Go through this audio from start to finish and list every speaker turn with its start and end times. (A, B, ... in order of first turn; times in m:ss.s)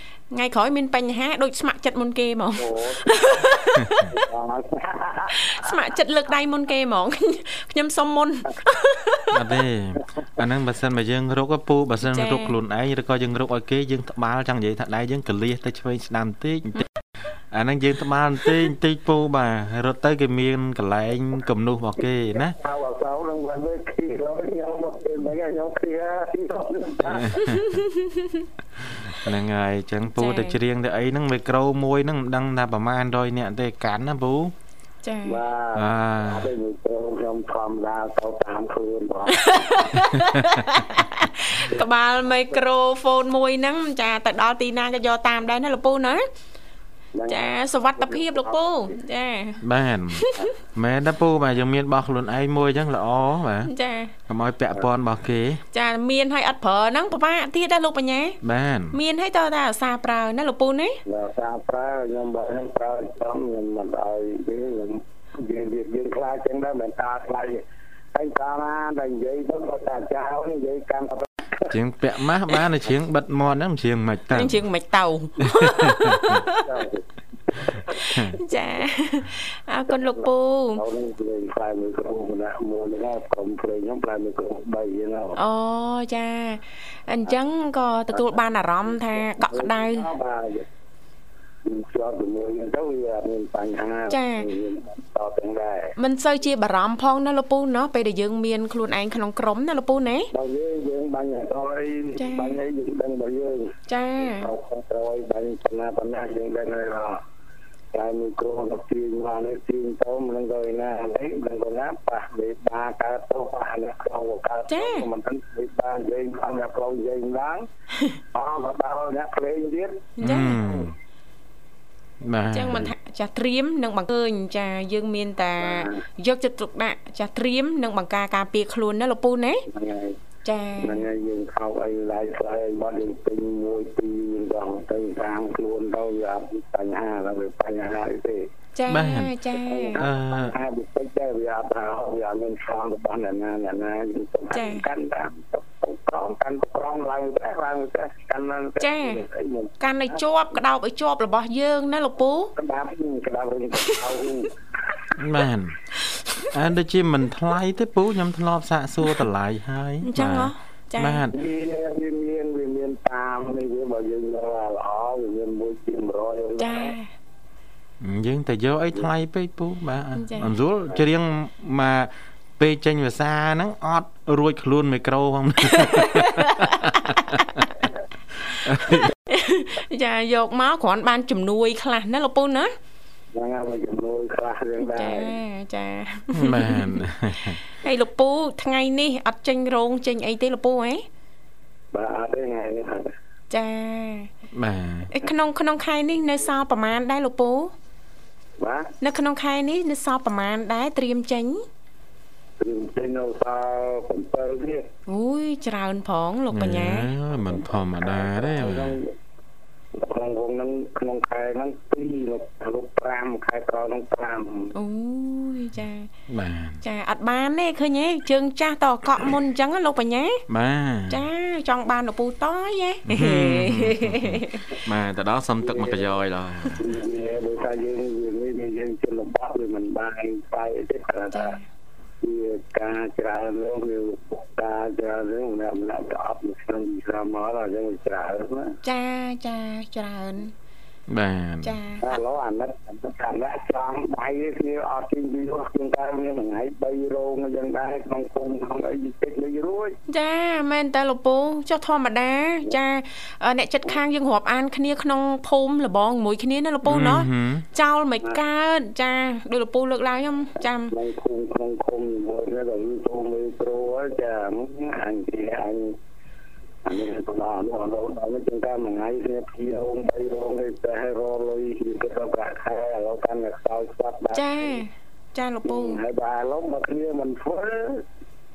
0:00.3-0:04.2 A
0:02.6-0:03.5 B
0:04.1-0:05.7 B
0:05.3-0:09.5 A
0:09.3-0:16.9 C
0:12.0-0:12.5 A
0:17.5-0:22.6 C
0:22.3-0:27.6 B
0:27.2-0:27.6 C
0:27.4-0:28.4 A
0:29.0-0:34.5 C
0:30.2-0:30.6 A
0:35.0-0:35.4 A
0:35.3-0:39.9 B
0:35.7-0:36.5 C
0:39.3-0:46.3 A
0:40.2-0:40.6 C
0:47.2-0:49.0 B
0:47.3-0:50.5 A
0:49.6-0:53.7 C
0:53.6-0:54.1 A
0:54.3-0:55.6 C
0:55.7-0:58.4 A
0:58.4-0:59.0 C
0:58.9-1:01.0 A
1:01.1-1:07.6 B
1:08.1-1:11.7 B
1:11.7-1:14.6 C
1:14.3-1:16.6 A
1:15.5-1:16.2 C
1:16.5-1:18.2 B
1:18.3-1:20.8 A
1:19.9-1:25.4 B
1:25.4-1:30.1 A
1:28.1-1:30.6 B
1:31.6-1:35.9 B
1:34.1-1:34.5 A
1:36.0-1:40.3 A
1:40.3-1:47.2 B
1:42.2-1:42.6 A
1:43.9-1:44.5 A
1:47.9-1:57.7 B
1:54.7-1:55.0 A
1:58.3-2:00.8 B
2:00.2-2:00.6 A
2:00.2-2:01.0 C
2:02.2-2:02.9 C
2:02.5-2:09.7 A
2:05.6-2:06.0 B
2:09.7-2:10.2 B
2:10.4-2:11.1 A
2:10.8-2:18.5 B
2:18.8-2:20.0 A
2:18.9-2:20.6 C
2:19.6-2:29.7 B
2:24.5-2:24.9 A
2:28.8-2:29.2 A
2:29.8-2:32.5 A
2:32.6-2:34.9 B
2:35.2-2:35.8 C
2:36.5-2:41.4 C
2:40.0-2:41.3 A
2:41.3-2:46.9 B
2:46.6-2:47.1 A
2:48.0-2:57.7 C
2:50.2-2:50.5 A
2:55.7-2:57.7 A
2:58.6-2:59.1 C
2:58.9-3:02.7 A
3:03.4-3:05.4 B
3:04.8-3:07.0 A
3:06.3-3:07.6 C
3:07.7-3:11.0 A
3:11.9-3:13.1 B
3:13.5-3:14.3 A
3:14.5-3:15.1 C
3:15.1-3:17.7 A
3:18.6-3:18.9 B
3:19.0-3:21.6 A
3:22.6-3:24.9 B
3:25.1-3:27.1 A
3:26.5-3:29.0 C
3:27.4-3:29.1 B
3:29.9-3:34.7 B
3:34.7-3:36.1 A
3:36.3-3:36.8 C
3:36.8-3:40.4 A
3:40.5-3:41.3 C
3:41.1-3:44.6 A
3:43.1-3:46.9 C
3:45.6-3:46.1 B
3:46.7-3:51.6 B
3:51.3-3:51.6 A
3:52.2-3:58.8 B
3:58.8-4:00.5 A
4:01.1-4:01.8 C
4:01.6-4:02.2 A
4:02.0-4:10.0 B
4:10.1-4:20.9 A
4:16.8-4:17.7 C
4:20.9-4:26.0 B
4:26.8-4:34.8 B
4:34.3-4:36.0 A
4:35.6-4:38.0 B